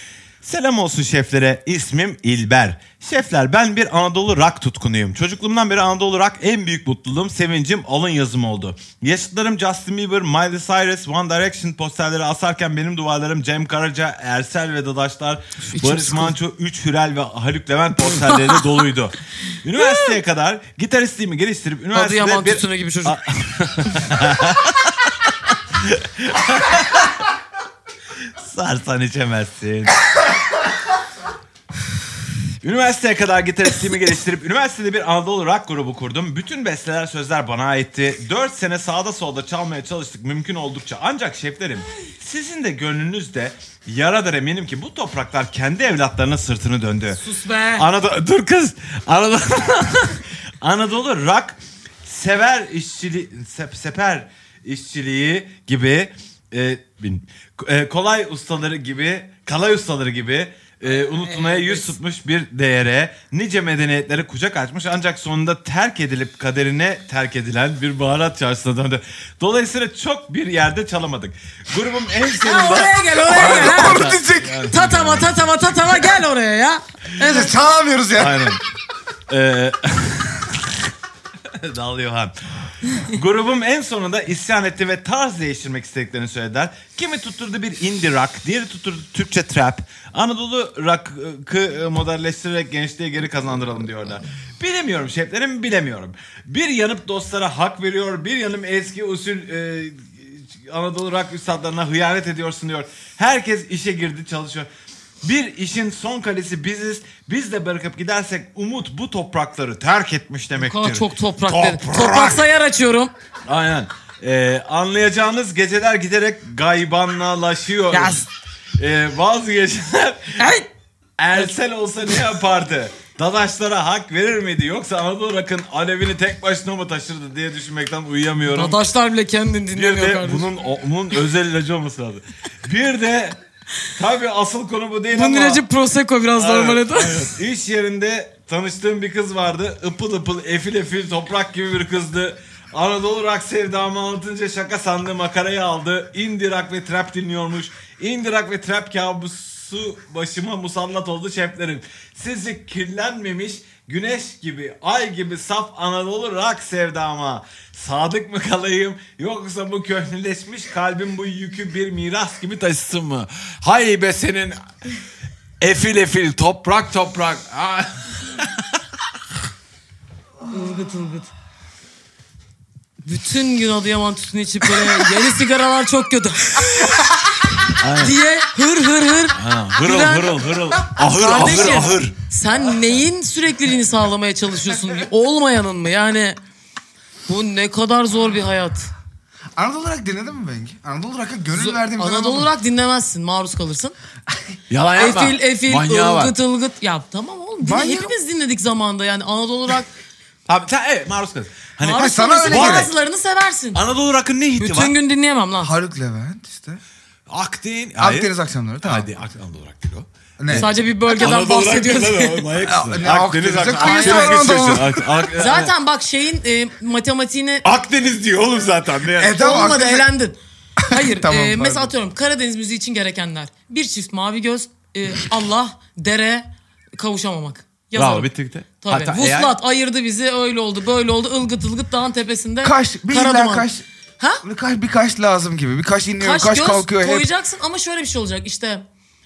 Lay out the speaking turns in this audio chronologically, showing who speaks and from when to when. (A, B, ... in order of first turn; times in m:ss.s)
0:00.4-0:27.2 A
0:15.6-0:16.4 B
0:18.1-0:18.7 B
0:19.8-0:20.1 B
0:21.9-0:23.2 B
0:28.4-0:30.0 A
0:32.6-0:47.2 A
0:47.2-0:47.9 B
0:47.8-1:15.5 A
1:01.1-1:01.9 B
1:12.4-1:14.2 B
1:13.3-1:14.7 C
1:14.7-1:17.5 B
1:17.2-1:18.6 C
1:18.2-1:18.6 A
1:19.3-1:20.8 A
1:21.5-1:22.3 A
1:23.0-1:44.7 A
1:45.2-1:52.5 A
1:50.6-1:53.1 B
1:53.5-1:58.2 A
1:57.9-1:58.2 B
1:58.8-2:00.5 A
2:00.4-2:00.7 B
2:01.2-2:08.8 A
2:08.5-2:10.5 B
2:09.8-2:13.4 A
2:14.0-2:15.6 A
2:15.1-2:17.3 B
2:16.4-2:44.6 A
2:45.6-2:48.6 A
2:50.5-2:51.3 B
2:53.0-2:57.1 B
2:57.8-2:58.2 A
2:58.0-3:06.4 B
2:59.4-3:02.2 A
3:07.3-3:08.9 B
3:09.6-3:12.5 C
3:11.5-3:14.0 B
3:14.7-3:16.4 A
3:15.0-3:19.9 B
3:17.6-3:18.1 C
3:20.5-3:22.9 A
3:21.8-3:23.8 B
3:21.9-3:22.9 C
3:23.8-3:24.9 A
3:24.6-3:25.7 B
3:25.6-3:26.8 C
3:27.3-3:35.7 A
3:28.0-3:29.1 C
3:30.4-3:30.7 C
3:30.5-3:32.5 B
3:32.7-3:35.1 C
3:33.8-3:34.7 B
3:35.4-3:37.6 B
3:37.6-3:39.4 A
3:39.2-3:40.1 C
3:39.4-3:48.3 B
3:40.8-3:41.9 C
3:47.9-3:49.5 A
3:48.8-3:53.7 B
3:52.6-3:53.8 C
3:54.4-3:57.3 C
3:56.2-3:58.8 B